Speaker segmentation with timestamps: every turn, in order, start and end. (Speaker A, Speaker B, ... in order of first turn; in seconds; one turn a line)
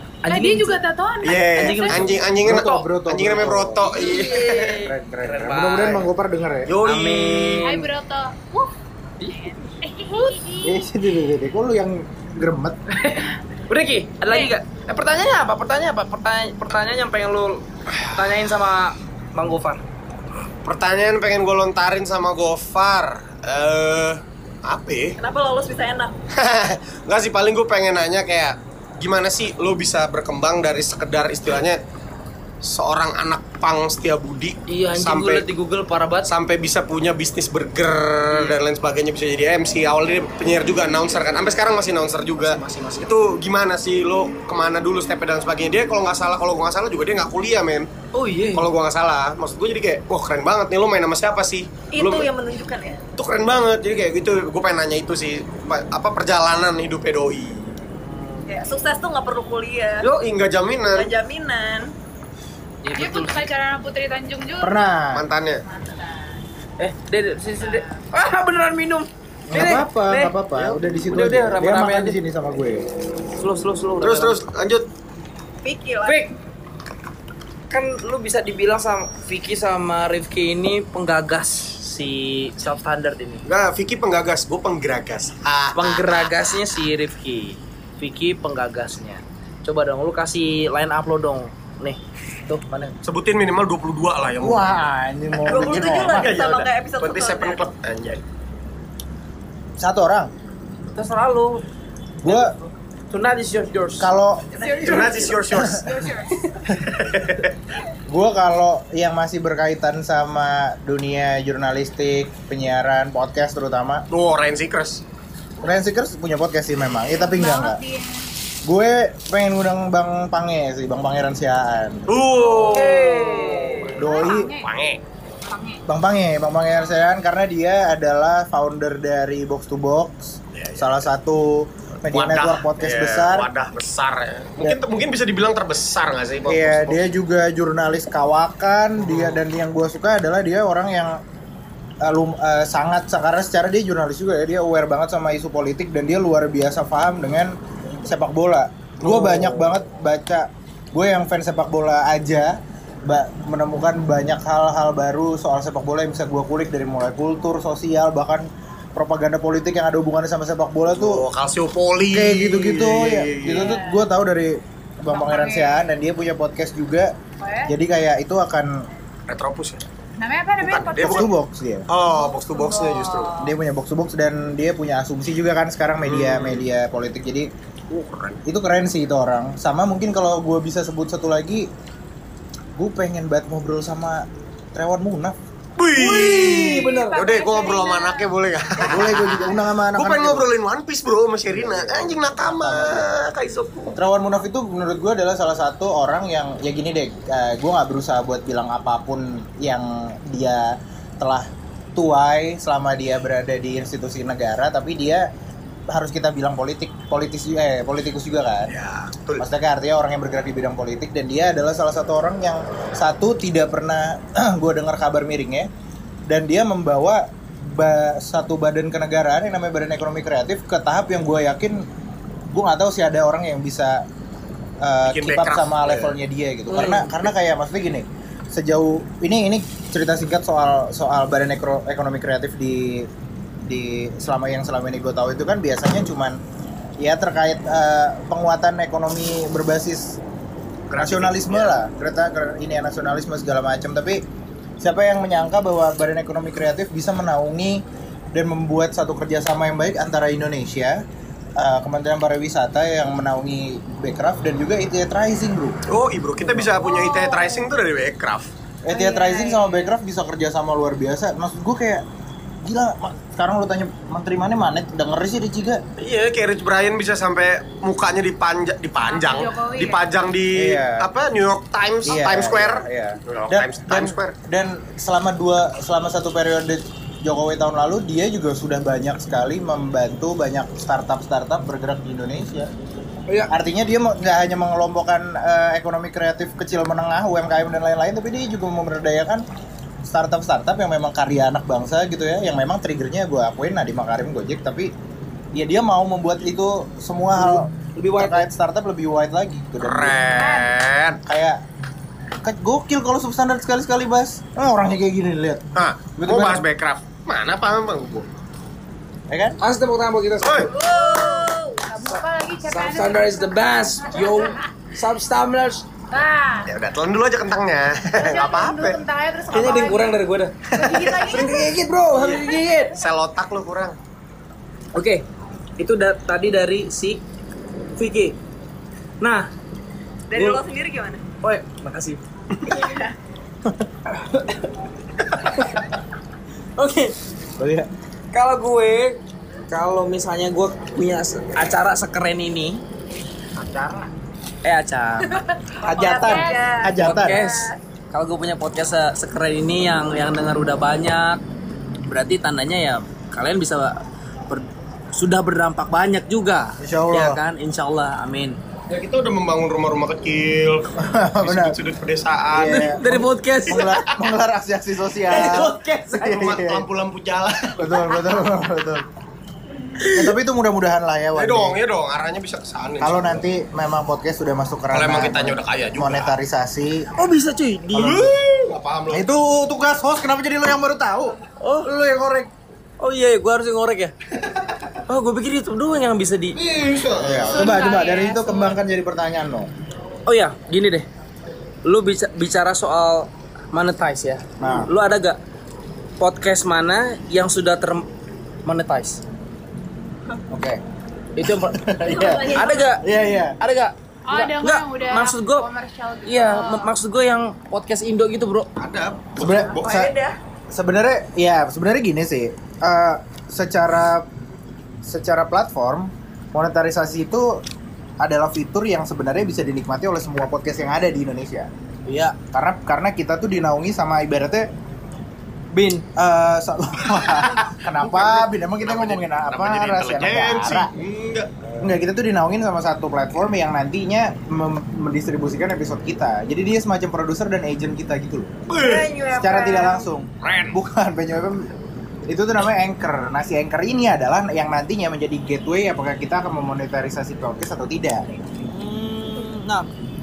Speaker A: 0.2-0.8
Speaker B: 0.3-2.3
Speaker C: 1.2-4.8
Speaker A: 1.5-2.8
Speaker D: 2.4-3.9
Speaker A: 3.9-6.1
Speaker D: 4.7-6.7
Speaker C: 6.7-7.6
Speaker A: 6.8-7.9
Speaker B: 7.6-8.7
Speaker A: 9.2-9.5
Speaker B: 9.2-10.8
Speaker D: 10.6-12.8
Speaker A: 13.7-19.8
Speaker B: 14.3-14.6
Speaker C: 20.6-25.1
Speaker E: 25.2-26.1
Speaker C: 26.4-31.8
Speaker C: 32.6-35.5
Speaker A: 34.7-36.3
Speaker C: 36.2-47.9
Speaker A: 38.3-38.6
Speaker A: 42.4-42.8
Speaker A: 48.1-48.7
Speaker C: 48.5-52.3
Speaker E: 51.9-53.0
Speaker C: 53.2-57.8
Speaker A: 58.0-58.4
Speaker E: 58.5-60.1
Speaker C: 60.0-61.1
Speaker E: 60.8-61.9
Speaker A: 62.8-63.5
Speaker B: 63.0-64.8
Speaker D: 64.6-65.2
Speaker C: 65.1-65.6
Speaker B: 65.7-66.0
Speaker A: 66.8-72.2
Speaker D: 69.5-72.8
Speaker A: 73.3-74.4
Speaker C: 74.0-74.9
Speaker E: 75.6-76.2
Speaker A: 76.0-76.3
Speaker A: 77.7-83.4
Speaker C: 83.5-86.3
Speaker A: 85.7-92.9
Speaker C: 93.0-94.7
Speaker D: 94.4-96.3
Speaker C: 95.4-98.2
Speaker E: 95.5-97.6
Speaker D: 99.8-100.3
Speaker A: 100.9-101.6
Speaker D: 102.2-102.5
Speaker A: 102.2-105.4
Speaker D: 104.0-104.4
Speaker B: 104.7-105.2
Speaker C: 104.8-105.8
Speaker D: 105.5-105.8
Speaker C: 106.9-107.5
Speaker D: 108.1-114.0
Speaker C: 114.1-115.0
Speaker D: 115.6-117.8
Speaker B: 117.1-118.2
Speaker D: 118.6-122.1
Speaker C: 122.1-123.0
Speaker A: 122.6-124.0
Speaker D: 124.0-124.5
Speaker B: 124.0-124.7
Speaker C: 124.5-125.0
Speaker B: 125.5-125.8
Speaker D: 125.9-133.5
Speaker C: 130.5-131.1
Speaker C: 132.1-137.0
Speaker D: 136.4-141.2
Speaker D: 142.0-152.5
Speaker A: 149.0-149.6
Speaker D: 153.1-161.2
Speaker C: 160.9-163.8
Speaker D: 162.1-167.1
Speaker B: 163.5-164.1
Speaker B: 165.1-165.9
Speaker B: 167.4-167.7
Speaker D: 167.7-168.7
Speaker C: 169.3-169.8
Speaker B: 170.2-171.3
Speaker C: 170.6-171.3
Speaker D: 171.0-171.9
Speaker C: 171.9-173.3
Speaker B: 172.0-173.5
Speaker D: 173.3-177.5
Speaker C: 176.1-176.7
Speaker C: 177.9-178.4
Speaker D: 178.4-181.7
Speaker D: 182.8-185.3
Speaker C: 185.8-193.9
Speaker A: 185.9-187.2
Speaker B: 186.7-188.3
Speaker D: 188.8-190.5
Speaker D: 191.5-193.1
Speaker D: 193.9-205.2
Speaker D: 205.9-208.8
Speaker C: 208.7-209.5
Speaker D: 209.4-215.7
Speaker D: 216.3-221.8
Speaker D: 222.5-224.0
Speaker D: 224.8-233.1
Speaker C: 225.1-226.1
Speaker A: 226.7-227.1
Speaker D: 233.7-236.4
Speaker D: 237.0-240.2
Speaker C: 240.9-241.7
Speaker D: 240.9-244.2
Speaker D: 244.8-251.0
Speaker D: 251.6-255.8
Speaker C: 255.9-258.5
Speaker B: 256.8-257.6
Speaker D: 258.9-262.0
Speaker B: 258.9-259.9
Speaker D: 262.6-265.8
Speaker C: 266.0-274.3
Speaker B: 269.0-270.0
Speaker D: 270.5-271.1
Speaker D: 272.0-282.7
Speaker D: 283.5-289.4
Speaker D: 290.0-294.9
Speaker D: 295.5-300.3
Speaker A: 297.4-298.5
Speaker C: 299.8-301.2
Speaker B: 300.3-300.7
Speaker D: 301.3-301.6
Speaker D: 302.4-305.6
Speaker C: 305.8-308.3
Speaker D: 306.2-306.6
Speaker D: 309.3-309.6
Speaker A: 309.6-310.7
Speaker C: 310.4-310.7
Speaker E: 310.7-311.8
Speaker B: 310.7-314.6
Speaker A: 312.0-315.9
Speaker B: 316.1-316.7
Speaker C: 316.6-319.0
Speaker B: 318.2-320.2
Speaker A: 319.5-322.9
Speaker B: 320.8-321.8
Speaker C: 322.1-323.9
Speaker A: 324.9-325.2
Speaker A: 325.8-327.2
Speaker A: 328.0-328.4
Speaker A: 329.2-329.5
Speaker E: 330.3-331.2
Speaker A: 330.3-330.6
Speaker A: 331.4-332.2
Speaker E: 332.7-333.1
Speaker A: 334.1-334.7
Speaker A: 335.4-335.8
Speaker A: 336.8-337.1
Speaker D: 337.6-337.9
Speaker A: 338.3-339.2
Speaker A: 339.7-342.8
Speaker C: 343.6-344.1
Speaker A: 344.6-345.4
Speaker B: 345.3-346.7
Speaker D: 345.8-347.4
Speaker E: 345.9-347.8
Speaker A: 347.0-351.4
Speaker A: 352.1-354.0
Speaker A: 354.5-358.6
Speaker D: 356.8-357.4
Speaker C: 358.9-360.9
Speaker D: 361.0-361.8
Speaker C: 361.4-362.9
Speaker D: 362.5-366.9
Speaker A: 362.7-363.9
Speaker A: 365.3-366.3
Speaker C: 365.4-368.0
Speaker D: 367.8-369.0
Speaker A: 370.0-370.3
Speaker D: 370.1-371.8
Speaker C: 371.4-373.4
Speaker D: 373.0-377.1
Speaker C: 374.9-376.3
Speaker A: 377.1-378.3
Speaker D: 377.9-378.2
Speaker C: 377.9-379.3
Speaker D: 379.1-382.5
Speaker A: 381.6-381.9
Speaker A: 383.0-384.1
Speaker A: 385.1-386.6
Speaker C: 386.6-387.7
Speaker D: 387.1-389.7
Speaker B: 387.5-388.8
Speaker A: 390.3-391.1
Speaker A: 391.8-395.4
Speaker D: 394.6-394.9
Speaker A: 396.2-398.0
Speaker A: 398.6-399.2
Speaker D: 400.5-400.8
Speaker A: 401.4-403.0
Speaker D: 401.4-403.6
Speaker E: 402.3-402.5
Speaker A: 403.6-405.7
Speaker B: 404.3-406.9
Speaker A: 406.2-408.7
Speaker C: 408.8-409.9
Speaker D: 409.4-410.1
Speaker E: 409.7-410.3
Speaker D: 410.7-414.2
Speaker D: 415.0-417.6
Speaker D: 418.2-421.7
Speaker A: 422.1-422.4
Speaker D: 422.5-424.7
Speaker A: 425.7-426.1
Speaker D: 426.1-430.9
Speaker C: 427.2-431.9
Speaker D: 431.8-438.6
Speaker C: 438.7-439.1
Speaker E: 438.8-440.1
Speaker D: 439.3-441.7
Speaker C: 440.4-440.7
Speaker D: 442.3-448.2
Speaker A: 448.6-449.9